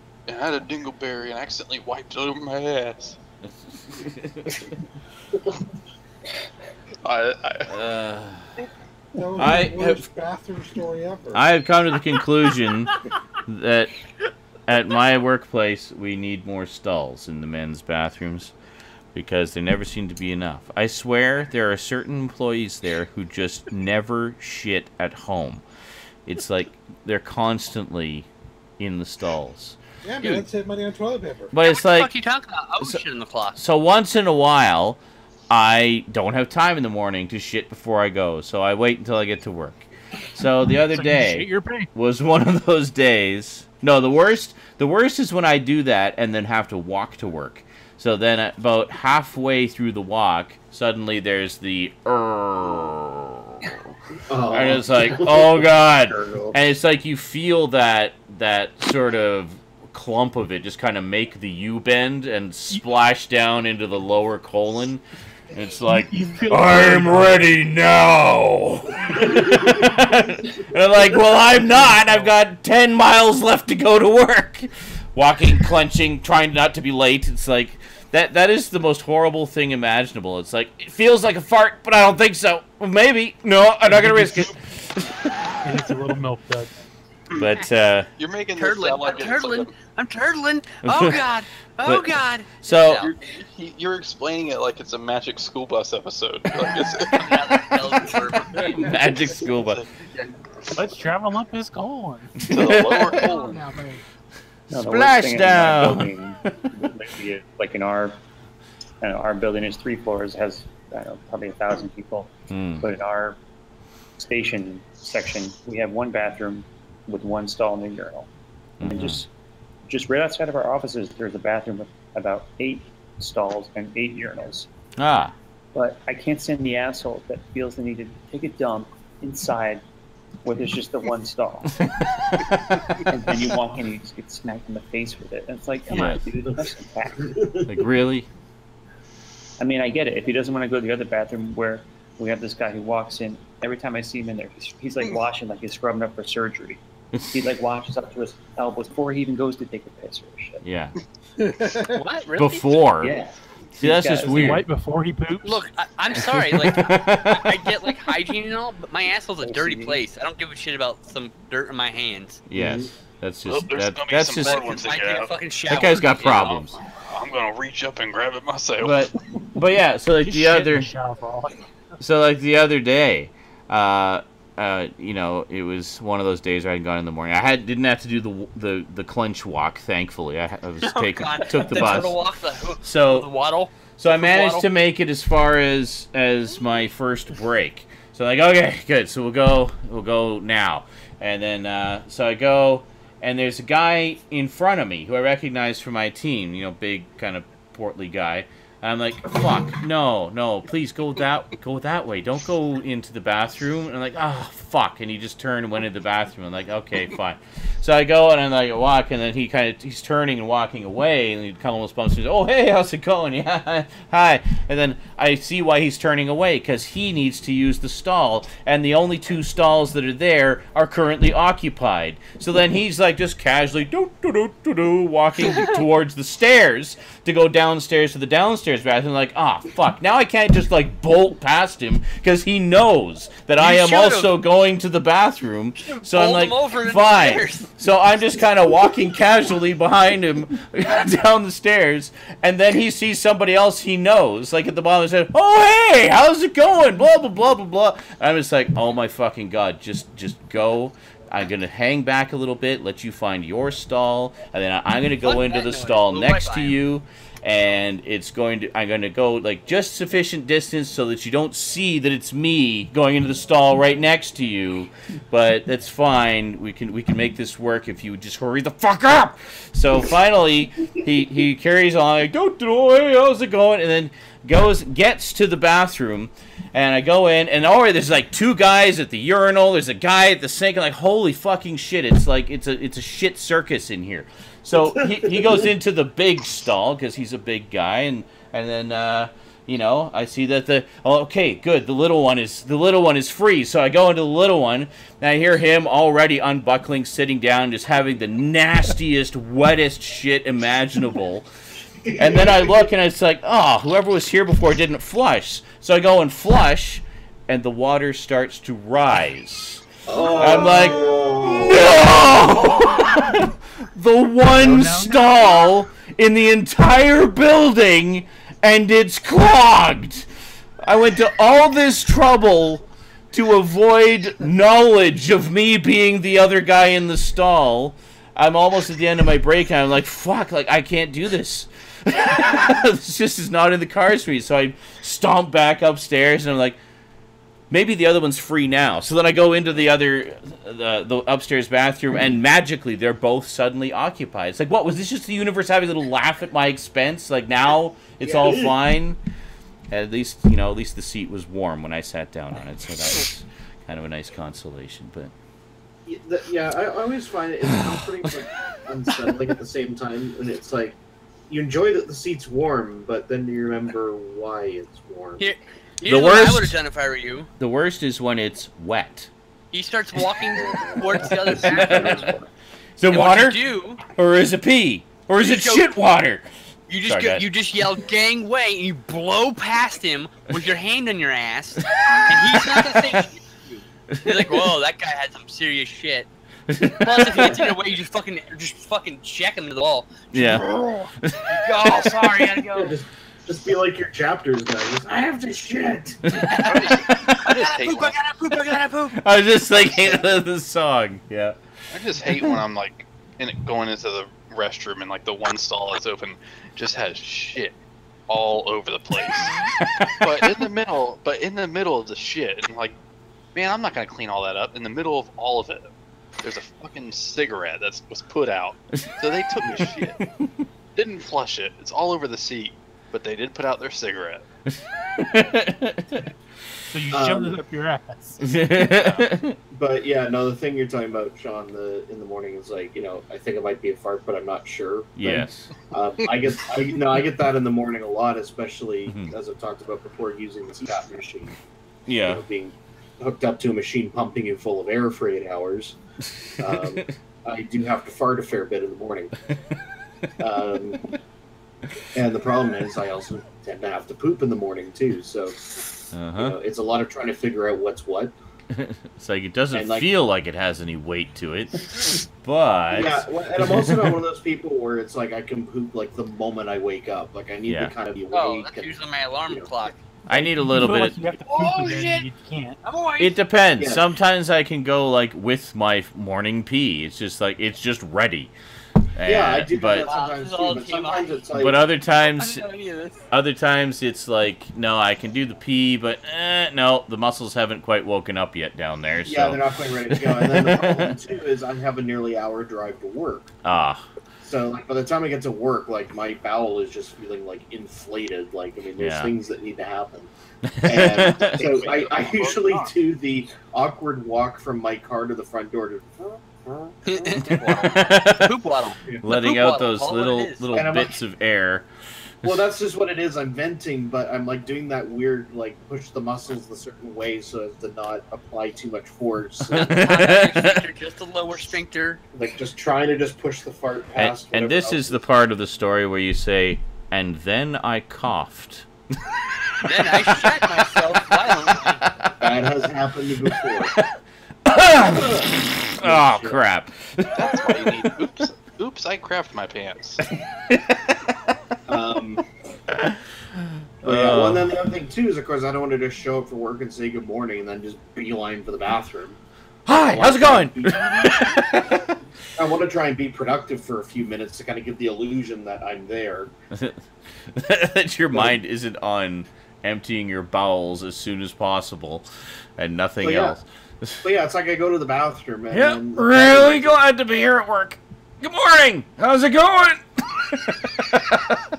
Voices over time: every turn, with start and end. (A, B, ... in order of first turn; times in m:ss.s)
0:00.3-0:03.2 A
0:03.4-0:04.7 B
0:07.0-0:07.7 A
0:07.7-0:08.5 B
0:09.2-0:11.4 C
0:09.4-0:10.1 B
0:11.3-0:14.0 B
0:14.7-0:18.5 B
0:19.1-0:25.6 B
0:26.2-0:28.3 B
0:28.8-0:30.4 B
0:30.0-0:31.5 C
0:31.5-0:32.1 B
0:31.6-0:33.6 D
0:33.6-0:35.0 B
0:35.5-0:53.8 B
0:40.7-0:41.9 E
0:54.3-0:56.6 F
0:54.5-1:25.2 B
1:05.9-1:07.6 E
1:11.8-1:12.3 E
1:23.9-1:24.5 E
1:25.6-1:26.7 E
1:27.3-1:28.1 B
1:28.2-1:29.7 A
1:28.5-1:33.1 D
1:30.8-1:31.2 B
1:31.8-1:33.0 B
1:33.0-1:40.3 A
1:37.1-1:38.9 D
1:38.8-1:39.8 B
1:40.8-1:44.0 E
1:42.4-1:43.3 B
1:42.5-1:43.6 A
1:44.7-1:48.2 G
1:44.7-1:46.5 B
1:49.0-1:53.4 G
1:52.5-1:52.9 B
1:54.2-1:58.3 G
1:58.8-1:59.2 B
1:58.8-1:59.3 G
1:59.8-2:04.7 G
2:05.0-2:05.3 B
2:05.7-2:09.8 G
2:10.4-2:11.7 G
2:13.1-2:17.4 G
2:15.9-2:16.2 B
2:17.2-2:17.8 F
2:17.7-2:18.3 B
2:19.6-2:26.8 G
2:27.1-2:27.4 B
2:27.3-2:30.6 G
2:30.6-2:31.0 B
2:31.9-2:32.8 D
2:32.4-2:33.2 B
2:33.0-2:34.6 G
2:33.8-2:34.6 B
2:34.3-2:35.6 E
2:35.4-2:42.4 D
2:36.3-2:37.6 B
2:39.4-2:40.0 G
2:42.5-2:44.7 B
2:42.6-2:42.9 F
2:43.4-2:45.3 A
2:44.4-2:46.8 D
2:45.7-2:46.8 B
2:47.1-2:49.1 A
2:48.8-2:50.9 B
2:50.2-2:51.7 E
2:52.0-3:02.2 B
3:00.8-3:04.6 D
3:02.8-3:03.3 B
3:04.0-5:01.4 B
3:53.6-3:54.3 D
3:55.8-3:57.7 D
4:15.2-4:16.7 D
4:44.8-4:45.6 F
5:02.0-5:02.9 F
5:02.2-5:20.2 B
5:10.0-5:12.4 F
5:14.6-5:15.2 E
5:20.8-5:36.8 B
5:37.7-5:49.2 B
5:48.2-5:48.7 F
5:49.9-5:55.3 B
5:56.0-6:01.0 F
5:57.7-5:58.0 B
6:01.5-6:05.4 F
6:05.4-6:07.5 D
6:06.0-6:06.8 B
6:07.6-6:09.3 B
6:09.7-6:12.4 D
6:11.2-6:12.4 B
6:11.7-6:12.4 F
6:13.0-6:16.5 B
6:13.1-6:14.0 D
6:15.4-6:15.9 D
6:16.9-6:26.3 D
6:17.0-6:17.5 B
6:22.0-6:23.2 B
6:24.1-6:24.6 B
6:26.7-6:27.6 B
6:27.0-6:30.6 D
6:30.3-6:32.1 B
6:31.5-6:33.0 D
6:32.7-6:36.3 F
6:36.2-6:37.3 B
6:36.4-6:39.2 D
6:36.7-6:38.2 A
6:39.1-6:41.6 B
6:41.9-6:47.8 A
6:48.3-6:49.6 A
6:50.1-6:53.0 A
6:53.5-6:55.9 A
6:56.4-7:00.2 A
6:59.6-6:59.9 F
7:01.0-7:04.4 A
7:05.2-7:06.2 B
7:06.9-7:08.5 E
7:07.1-7:07.6 F
7:08.4-7:09.6 B
7:09.7-7:21.6 F
7:15.2-7:15.7 B
7:19.1-7:19.3 B
7:22.1-7:22.4 B
7:22.2-7:26.0 F
7:26.6-7:29.3 F
7:26.6-7:27.1 B
7:30.4-7:31.1 F
7:32.1-7:38.3 F
7:36.1-7:36.6 B
7:38.7-7:44.2 B
7:39.7-7:40.1 F
7:42.9-7:49.7 F
7:47.7-7:47.9 B
7:48.3-7:50.0 D
7:50.3-7:51.2 B
7:50.3-7:52.8 E
7:51.4-7:52.3 D
7:52.8-7:53.4 D
7:53.2-7:58.5 B
7:53.8-7:54.1 F
7:59.2-8:00.1 B
7:59.2-8:01.8 F
8:00.0-8:01.4 D
8:01.5-8:02.6 B
8:02.2-8:03.2 D
8:03.3-8:09.6 B
8:09.2-8:13.5 F
8:10.1-8:11.1 B
8:13.6-8:14.0 B
8:14.4-8:20.3 F
8:19.0-8:19.3 B
8:20.6-8:21.6 B
8:20.8-8:27.9 F
8:21.5-8:22.9 D
8:27.0-8:30.6 D
8:27.4-8:28.5 B
8:29.2-8:31.9 B
8:30.7-8:31.1 F
8:32.4-8:40.0 F
8:39.7-8:40.8 B
8:39.9-8:42.2 D
8:42.3-8:45.2 F
8:44.1-8:48.9 B
8:49.8-8:52.0 D
8:50.0-8:50.6 B
8:51.8-8:52.3 B
8:52.4-8:53.9 F
8:53.6-8:54.0 B
8:54.6-8:58.0 B
8:54.7-8:56.6 F
8:57.3-9:00.2 A
9:01.9-9:02.4 F
9:04.0-9:04.7 B
9:04.0-9:09.4 F
9:09.9-9:12.0 B
9:09.9-9:11.5 F
9:12.5-9:16.5 F
9:16.7-9:17.0 B
9:17.5-9:22.2 B
9:18.3-9:18.6 F
9:22.8-9:24.2 B
9:23.2-9:23.6 F
9:24.2-9:27.0 F
9:25.7-9:31.5 B